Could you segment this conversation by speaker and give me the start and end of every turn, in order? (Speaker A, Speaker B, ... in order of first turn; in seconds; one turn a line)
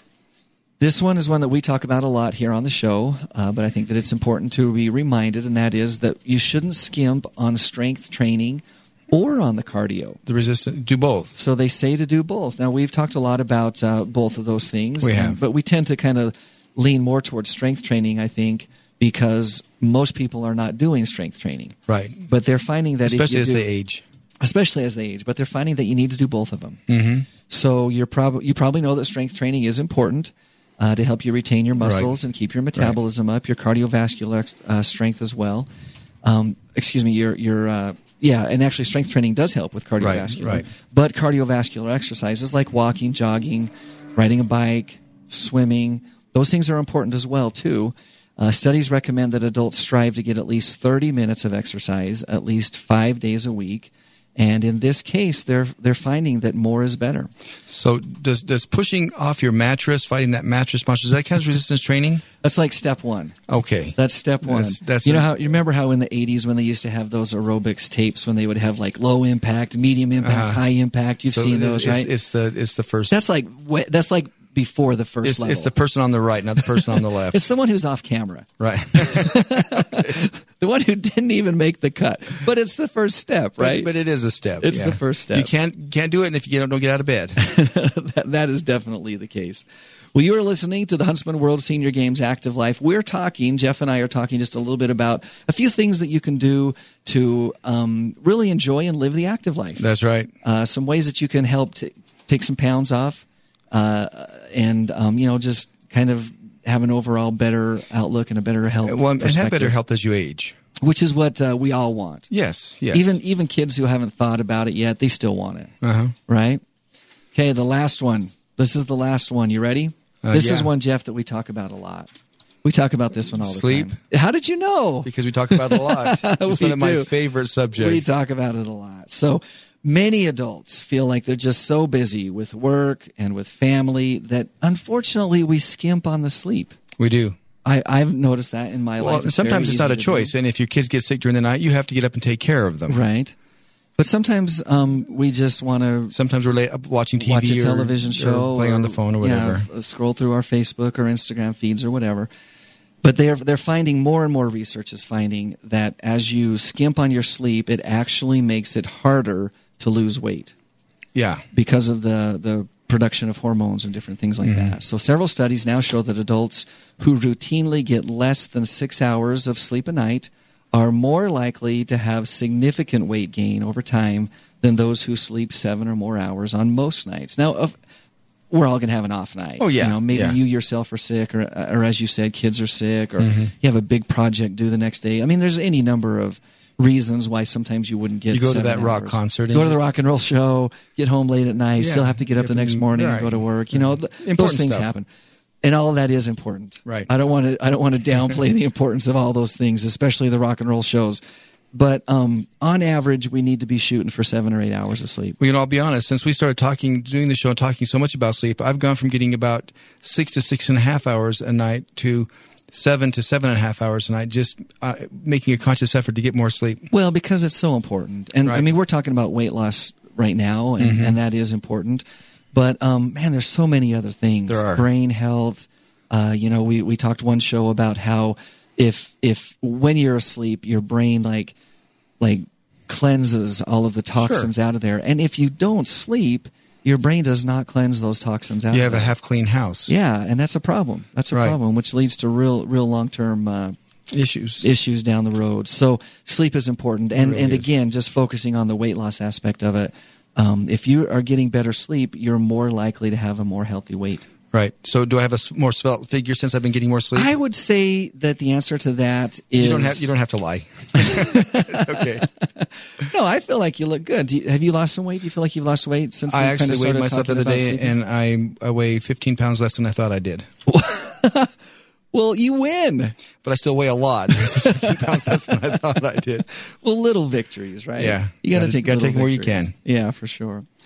Speaker A: 0.8-10.2
Speaker B: 10.3-11.3
Speaker A: 11.4-21.8
Speaker B: 15.0-15.4
Speaker B: 21.9-22.3
Speaker A: 22.3-23.6
Speaker B: 23.1-24.0
Speaker A: 24.4-26.8
Speaker B: 26.9-27.3
Speaker A: 27.5-35.7
Speaker B: 31.8-32.1
Speaker A: 36.2-57.3
Speaker B: 40.0-40.7
Speaker B: 57.7-62.2
Speaker A: 62.4-63.4
Speaker B: 63.5-65.3
Speaker A: 64.0-72.1
Speaker B: 70.2-70.6
Speaker B: 71.3-73.2
Speaker A: 73.1-75.7
Speaker B: 75.2-77.4
Speaker A: 76.9-83.9
Speaker B: 78.6-80.2
Speaker B: 83.6-87.4
Speaker A: 84.6-85.5
Speaker A: 87.4-99.8
Speaker B: 99.8-100.3
Speaker A: 100.4-109.8
Speaker B: 108.8-110.6
Speaker A: 110.8-112.3
Speaker B: 112.3-113.2
Speaker A: 112.9-115.7
Speaker B: 115.8-116.2
Speaker A: 116.3-116.6
Speaker A: 117.3-122.1
Speaker B: 120.2-120.7
Speaker A: 122.6-127.1
Speaker B: 123.4-124.0
Speaker B: 125.0-128.1
Speaker A: 127.8-136.8
Speaker B: 137.0-137.4
Speaker A: 137.7-140.3
Speaker B: 139.0-143.0
Speaker A: 142.9-143.3
Speaker A: 144.0-146.2
Speaker B: 146.1-149.7
Speaker A: 147.2-152.3
Speaker A: 153.0-160.5
Speaker B: 161.2-161.4
Speaker A: 161.5-177.8
Speaker B: 164.4-164.8
Speaker A: 178.5-195.1
Speaker B: 179.6-180.4
Speaker B: 183.2-183.5
Speaker B: 188.3-189.8
Speaker B: 191.8-194.9
Speaker A: 195.6-201.2
Speaker A: 201.7-205.4
Speaker B: 205.4-216.9
Speaker A: 216.9-231.6
Speaker B: 220.8-221.2
Speaker B: 224.5-224.8
Speaker A: 232.2-239.1
Speaker B: 234.2-234.5
Speaker B: 238.7-239.9
Speaker A: 239.9-243.8
Speaker B: 244.1-244.7
Speaker A: 244.6-254.3
Speaker B: 247.2-247.7
Speaker B: 254.5-257.3
Speaker A: 257.1-260.1
Speaker B: 259.6-262.3
Speaker A: 260.9-267.9
Speaker B: 266.3-270.5
Speaker A: 270.7-271.5
Speaker A: 272.1-273.2
Speaker B: 273.4-276.5
Speaker A: 274.6-275.6
Speaker A: 276.5-280.7
Speaker B: 278.0-279.7